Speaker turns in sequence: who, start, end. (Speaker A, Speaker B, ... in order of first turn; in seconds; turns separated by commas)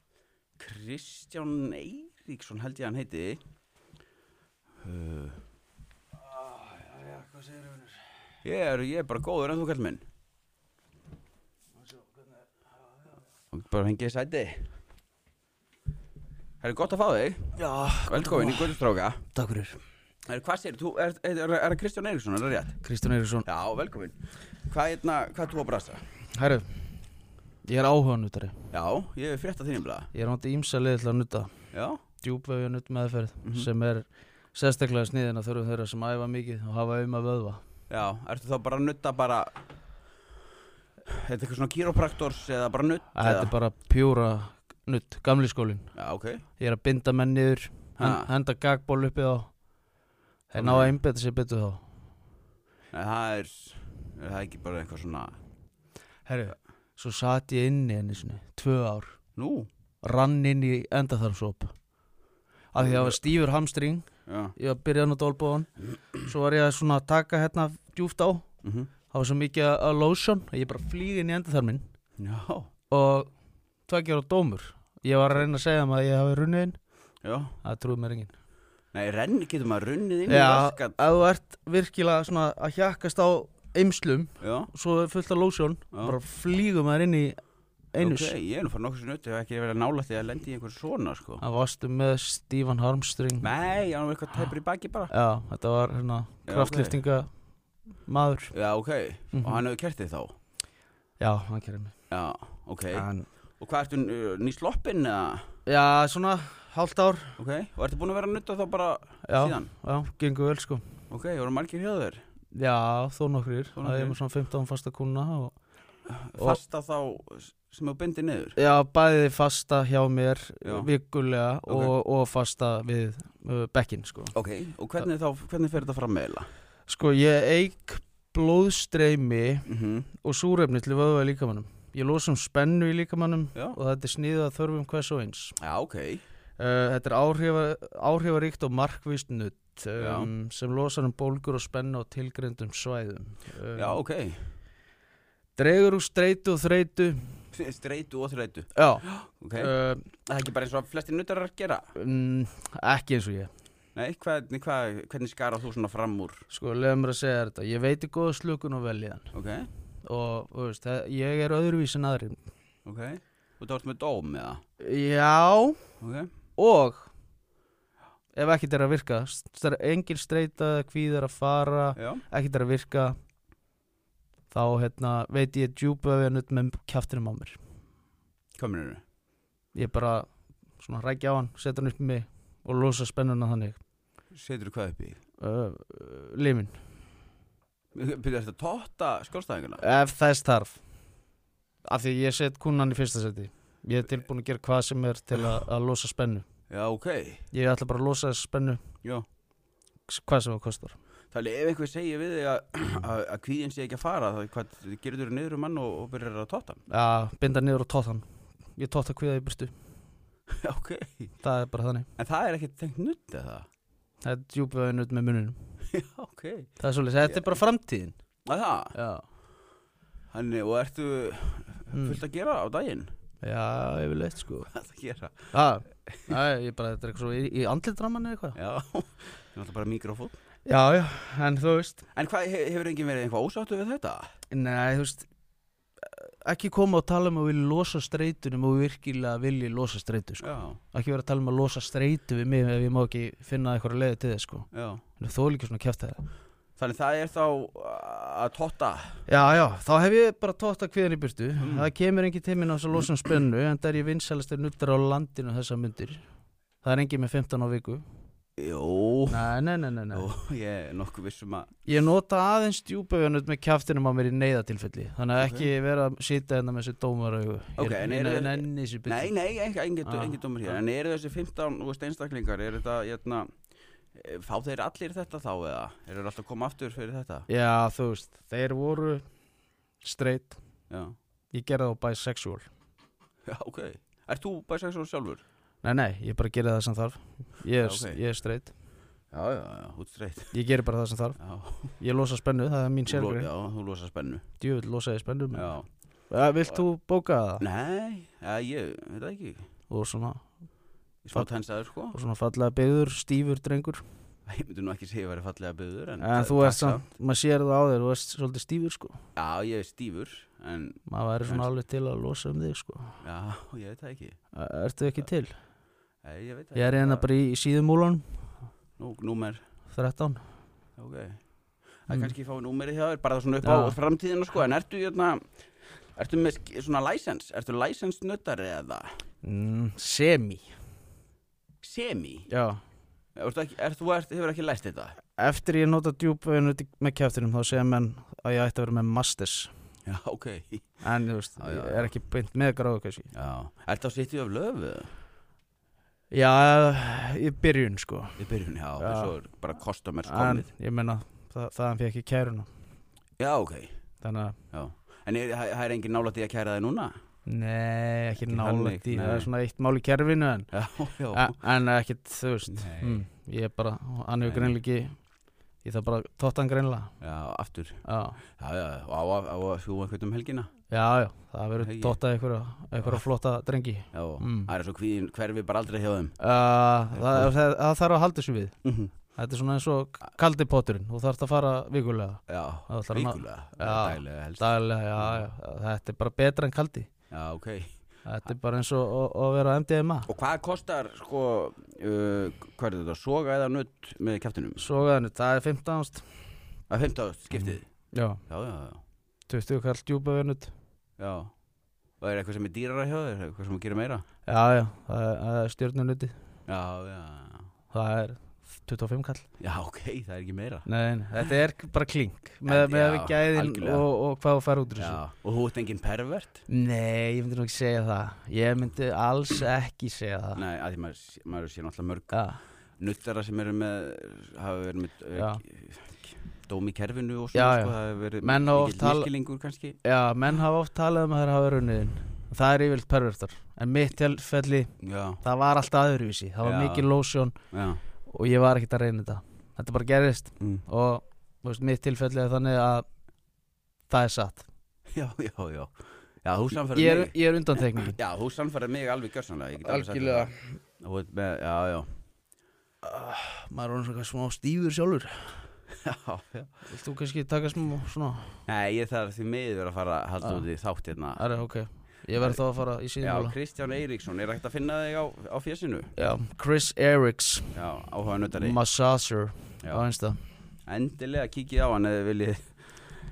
Speaker A: 0.6-3.4, Speaker A: 4.8-5.4, Speaker B: 6.3-8.0, Speaker A: 8.4-10.0, Speaker A: 13.5-14.7, Speaker A: 16.6-19.2, Speaker B: 17.6-18.8, Speaker B: 19.3-19.8, Speaker A: 20.2-22.8, Speaker B: 22.8-23.5, Speaker A: 23.4-26.0, Speaker B: 26.3-27.1, Speaker B: 27.6-28.6, Speaker A: 28.7-30.1, Speaker B: 30.1-31.5, Speaker A: 31.7-32.0, Speaker B: 32.2-37.6, Speaker A: 37.9-39.5, Speaker A: 41.1-43.5, Speaker B: 43.1-45.9, Speaker A: 45.9-46.4, Speaker B: 46.6-49.5, Speaker A: 48.0-48.3, Speaker B: 50.5-51.8, Speaker A: 50.6-50.9, Speaker A: 52.9-55.4, Speaker B: 56.2-59.1, Speaker A: 59.4-59.7, Speaker B: 60.0-61.7, Speaker B: 62.7-68.4, Speaker A: 62.8-63.2, Speaker A: 64.2-64.5, Speaker A: 68.6-68.9, Speaker B: 69.1-71.8, Speaker A: 72.2-72.7, Speaker B: 72.9-73.3, Speaker B: 73.9-76.8, Speaker A: 77.2-77.5, Speaker B: 77.6-78.3, Speaker A: 78.9-81.0, Speaker B: 80.2-87.4, Speaker A: 84.4-84.7, Speaker B: 87.9-88.3, Speaker A: 88.0-91.4, Speaker B: 91.4-93.5, Speaker A: 93.4-95.1, Speaker B: 95.1-97.3, Speaker A: 96.5-97.0, Speaker B: 98.0-98.5, Speaker A: 98.5-100.3, Speaker B: 99.3-99.6, Speaker B: 101.2-101.9, Speaker A: 102.1-103.1, Speaker B: 102.9-103.2, Speaker A: 103.6-105.5, Speaker B: 105.7-107.3, Speaker A: 107.4-109.7, Speaker B: 109.2-110.8, Speaker A: 111.1-112.2, Speaker B: 112.5-115.5, Speaker A: 113.8-114.2, Speaker A: 116.1-118.6, Speaker B: 118.5-124.3, Speaker A: 120.6-120.9, Speaker A: 121.7-121.9, Speaker A: 124.3-126.5, Speaker B: 126.9-135.6, Speaker A: 129.7-130.1, Speaker A: 135.6-136.2, Speaker B: 136.6-144.0, Speaker A: 140.0-140.3, Speaker A: 143.7-144.5, Speaker B: 145.6-147.4, Speaker A: 147.5-151.9, Speaker B: 148.7-150.1, Speaker B: 151.9-153.5, Speaker A: 153.9-156.5, Speaker B: 156.5-159.3, Speaker A: 159.3-159.7, Speaker B: 160.0-162.4, Speaker A: 162.8-164.6, Speaker B: 164.8-165.8, Speaker A: 166.0-166.3, Speaker B: 166.6-167.1, Speaker B: 168.3-173.1, Speaker A: 171.9-172.2, Speaker B: 174.5-177.6, Speaker A: 178.6-179.0, Speaker B: 179.7-180.3, Speaker B: 180.8-183.8, Speaker A: 184.3-185.2, Speaker B: 185.4-186.8, Speaker A: 187.9-189.8, Speaker B: 189.8-190.8, Speaker B: 191.8-196.4, Speaker A: 196.7-197.4, Speaker B: 197.5-198.8, Speaker B: 200.1-200.9, Speaker A: 201.3-206.8, Speaker B: 206.9-209.7, Speaker A: 210.6-211.3, Speaker B: 211.4-212.1, Speaker A: 212.2-213.7, Speaker B: 214.2-215.6, Speaker A: 215.9-216.7, Speaker B: 216.8-218.2, Speaker A: 218.4-218.9, Speaker B: 218.9-219.2, Speaker A: 220.3-223.1, Speaker B: 221.9-222.2, Speaker B: 223.4-224.7, Speaker A: 224.7-225.5, Speaker B: 225.5-228.6, Speaker A: 228.5-230.3, Speaker B: 230.7-232.0, Speaker A: 232.1-234.3, Speaker B: 234.5-235.3, Speaker B: 236.0-246.2, Speaker A: 240.4-240.8, Speaker A: 244.7-245.0, Speaker A: 246.8-249.2, Speaker B: 249.3-256.2, Speaker A: 251.6-251.9, Speaker B: 256.8-258.0, Speaker A: 258.6-259.4, Speaker B: 259.3-260.3, Speaker A: 260.1-261.8, Speaker B: 261.9-269.4, Speaker A: 265.4-265.7, Speaker A: 267.8-273.5, Speaker B: 270.0-270.4, Speaker A: 274.1-277.5, Speaker B: 277.5-279.2, Speaker B: 280.0-280.6, Speaker A: 280.9-281.1, Speaker B: 281.5-282.7, Speaker A: 283.4-285.4, Speaker B: 285.8-288.7, Speaker A: 287.8-288.2, Speaker A: 289.3-290.5, Speaker B: 290.5-291.4, Speaker A: 291.4-291.9, Speaker B: 292.0-293.5, Speaker A: 293.1-294.4, Speaker B: 294.6-295.8, Speaker A: 295.5-295.9, Speaker B: 296.3-297.6, Speaker A: 297.6-299.6, Speaker B: 299.9-300.5, Speaker A: 301.2-302.1, Speaker B: 302.1-304.0, Speaker A: 304.4-307.1, Speaker B: 306.2-309.2, Speaker A: 309.4-311.7, Speaker B: 311.1-313.2, Speaker A: 313.2-314.4, Speaker B: 314.5-315.5, Speaker A: 316.2-317.2, Speaker B: 316.7-318.4, Speaker A: 319.0-319.6, Speaker B: 319.9-320.4, Speaker A: 321.0-321.4, Speaker A: 322.1-325.4, Speaker B: 323.6-324.0, Speaker A: 326.1-329.1, Speaker B: 329.4-330.7, Speaker A: 331.8-332.5, Speaker B: 332.5-332.8, Speaker A: 333.4-335.1, Speaker B: 335.4-339.7, Speaker A: 340.1-340.9, Speaker B: 341.0-343.3, Speaker A: 341.6-342.1, Speaker A: 343.3-345.1, Speaker B: 346.3-348.4, Speaker A: 348.4-350.7, Speaker B: 349.0-349.4, Speaker B: 350.2-352.7, Speaker A: 353.4-354.0, Speaker B: 354.2-354.6, Speaker A: 354.7-357.2, Speaker B: 357.4-360.7, Speaker A: 358.4-359.5, Speaker A: 360.7-361.6, Speaker B: 361.3-365.2, Speaker A: 362.7-363.3, Speaker A: 364.4-364.8, Speaker B: 365.8-367.1, Speaker A: 367.2-368.0, Speaker B: 368.0-368.4, Speaker A: 368.6-370.7, Speaker B: 370.9-374.7, Speaker A: 371.8-372.2, Speaker A: 374.1-376.4, Speaker B: 376.4-378.8, Speaker A: 377.1-377.5, Speaker A: 378.8-379.1, Speaker B: 379.3-387.1, Speaker A: 382.5-385.4, Speaker A: 387.3-387.9, Speaker B: 388.2-390.3, Speaker A: 390.3-394.8, Speaker B: 394.8-396.5, Speaker A: 396.9-397.9, Speaker B: 397.5-398.4, Speaker A: 398.5-399.0, Speaker B: 399.5-400.7, Speaker A: 401.2-401.5, Speaker A: 402.2-404.2, Speaker B: 404.4-406.3, Speaker A: 406.6-407.7, Speaker B: 407.9-409.4, Speaker A: 409.6-410.9, Speaker B: 410.9-415.2, Speaker A: 412.6-414.0, Speaker A: 415.0-416.6, Speaker B: 416.7-420.6, Speaker A: 420.5-422.4, Speaker B: 422.3-422.6, Speaker A: 423.0-430.0, Speaker B: 425.3-425.6, Speaker B: 427.5-429.3, Speaker B: 430.0-437.5, Speaker A: 435.0-435.4, Speaker A: 436.6-437.1, Speaker A: 437.7-438.0, Speaker B: 438.2-443.0, Speaker B: 444.1-444.6, Speaker A: 445.1-452.1, Speaker B: 446.9-448.2, Speaker B: 449.8-450.8, Speaker B: 453.0-455.8, Speaker A: 455.9-456.7, Speaker B: 456.8-458.6, Speaker A: 458.6-461.4, Speaker B: 460.4-460.7, Speaker B: 461.4-463.6, Speaker A: 462.4-462.6, Speaker A: 463.2-466.1, Speaker B: 466.2-467.8, Speaker A: 467.7-468.8, Speaker B: 468.5-470.4, Speaker A: 470.9-473.0